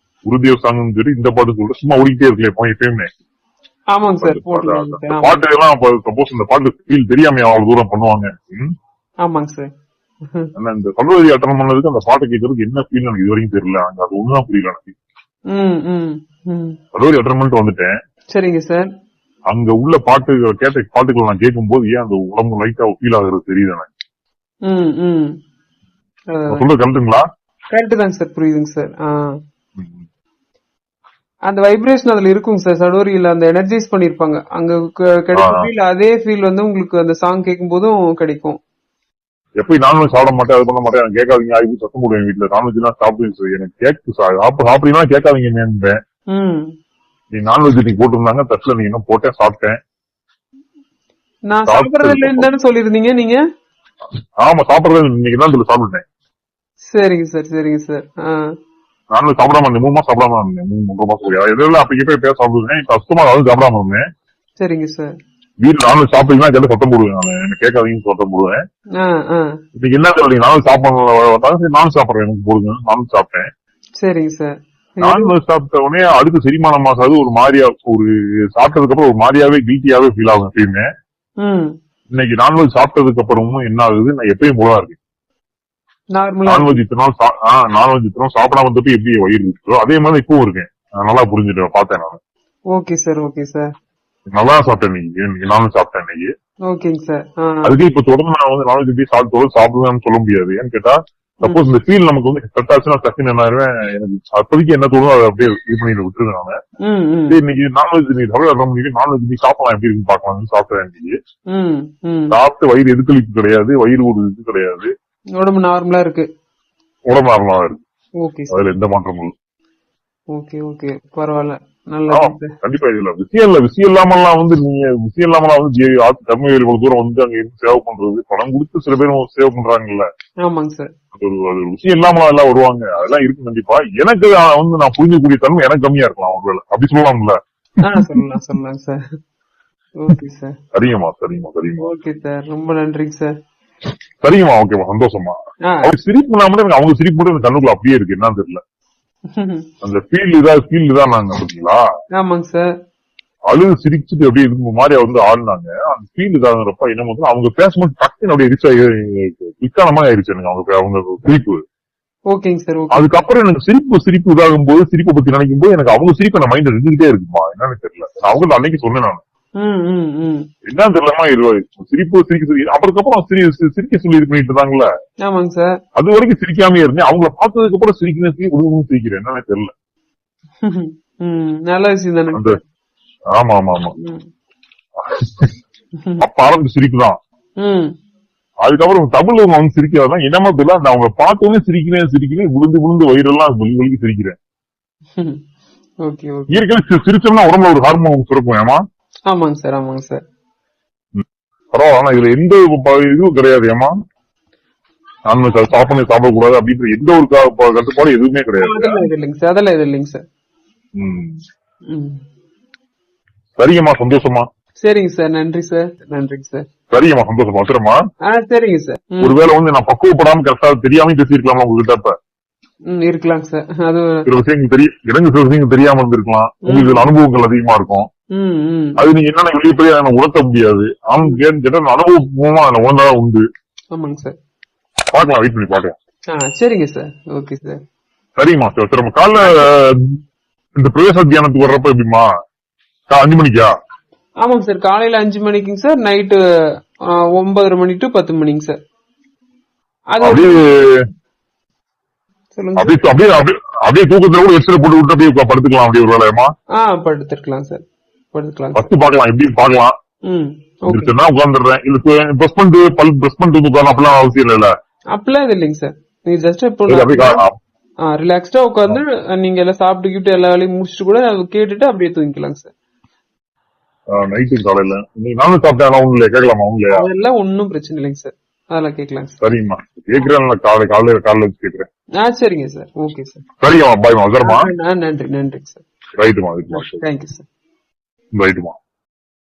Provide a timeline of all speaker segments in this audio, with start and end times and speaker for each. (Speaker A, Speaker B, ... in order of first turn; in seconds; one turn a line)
Speaker A: 0.3-3.1
Speaker B: 3.9-5.4
Speaker A: 4.2-8.7
Speaker B: 9.2-9.7
Speaker A: 10.6-14.9
Speaker B: 15.5-16.8
Speaker A: 16.9-17.9
Speaker B: 18.3-18.9
Speaker A: 19.5-23.9
Speaker B: 24.6-25.4
Speaker B: 26.3-26.6
Speaker A: 26.5-27.2
Speaker B: 27.7-29.2
Speaker B: 31.5-38.6
Speaker A: 35.4-35.7
Speaker A: 39.6-46.0
Speaker B: 46.3-46.7
Speaker A: 47.3-49.8
Speaker B: 51.5-53.4
Speaker A: 51.7-52.5
Speaker A: 54.4-56.0
Speaker B: 56.9-58.4
Speaker A: 59.1-64.0
Speaker B: 64.6-65.1
Speaker A: 65.6-68.6
Speaker B: 69.0-69.6
Speaker A: 69.8-73.5
Speaker B: 74.0-75.3
Speaker A: 75.0-80.8
Speaker B: 81.4-81.7
Speaker A: 82.1-85.0
Speaker B: 86.1-86.8
Speaker A: 86.5-92.2
Speaker B: 92.7-93.7
Speaker A: 94.3-96.3
Speaker B: 96.7-97.8
Speaker A: 97.6-106.6
Speaker B: 106.8-107.4
Speaker A: 107.3-111.1
Speaker B: 111.5-112.3
Speaker A: 112.3-114.9
Speaker B: 115.4-116.3
Speaker A: 117.1-117.8
Speaker B: 118.2-118.6
Speaker A: 118.5-119.3
Speaker B: 120.3-122.5
Speaker A: 122.1-130.1
Speaker B: 130.4-130.9
Speaker A: 131.1-138.1
Speaker B: 137.8-139.0
Speaker B: 140.0-140.6
Speaker A: 140.7-141.9
Speaker B: 141.8-143.3
Speaker A: 144.2-148.6
Speaker B: 145.7-145.9
Speaker B: 149.3-149.7
Speaker A: 149.8-151.8
Speaker B: 152.2-152.7
Speaker A: 153.5-161.6
Speaker B: 162.3-163.1
Speaker A: 162.9-169.2
Speaker B: 169.6-170.5
Speaker A: 170.7-174.9
Speaker B: 175.2-175.8
Speaker A: 176.0-179.7
Speaker B: 180.6-182.6
Speaker A: 183.3-183.9
Speaker B: 184.0-184.2
Speaker A: 185.0-185.5
Speaker A: 186.2-187.2
Speaker B: 187.6-187.9
Speaker A: 188.6-194.3
Speaker B: 196.0-196.6
Speaker A: 196.5-198.8
Speaker B: 199.3-200.2
Speaker A: 201.2-203.9
Speaker A: 205.3-209.1
Speaker B: 208.6-210.2
Speaker A: 211.0-211.4
Speaker B: 211.9-212.2
Speaker A: 213.6-214.5
Speaker B: 214.8-216.7
Speaker A: 216.9-218.0
Speaker B: 218.3-219.4
Speaker A: 219.2-222.1
Speaker B: 222.9-224.2
Speaker A: 224.2-228.1
Speaker B: 226.7-227.1
Speaker B: 228.3-229.0
Speaker A: 229.0-233.4
Speaker B: 233.9-234.3
Speaker A: 235.1-235.9
Speaker B: 236.3-237.8
Speaker A: 238.4-240.2
Speaker A: 240.8-242.2
Speaker A: 243.1-243.7
Speaker B: 244.4-246.4
Speaker B: 247.0-248.8
Speaker B: 250.1-250.6
Speaker A: 250.2-251.0
Speaker B: 252.5-253.1
Speaker A: 252.8-256.5
Speaker B: 256.8-258.9
Speaker A: 258.7-259.9
Speaker B: 260.2-261.2
Speaker A: 260.9-264.7
Speaker B: 265.1-267.4
Speaker A: 266.9-267.6
Speaker B: 268.1-272.7
Speaker A: 274.1-277.1
Speaker B: 276.9-279.4
Speaker A: 279.4-281.9
Speaker B: 282.2-283.4
Speaker A: 283.6-284.7
Speaker B: 284.4-285.8
Speaker A: 286.2-287.0
Speaker B: 286.7-287.4
Speaker A: 288.4-288.8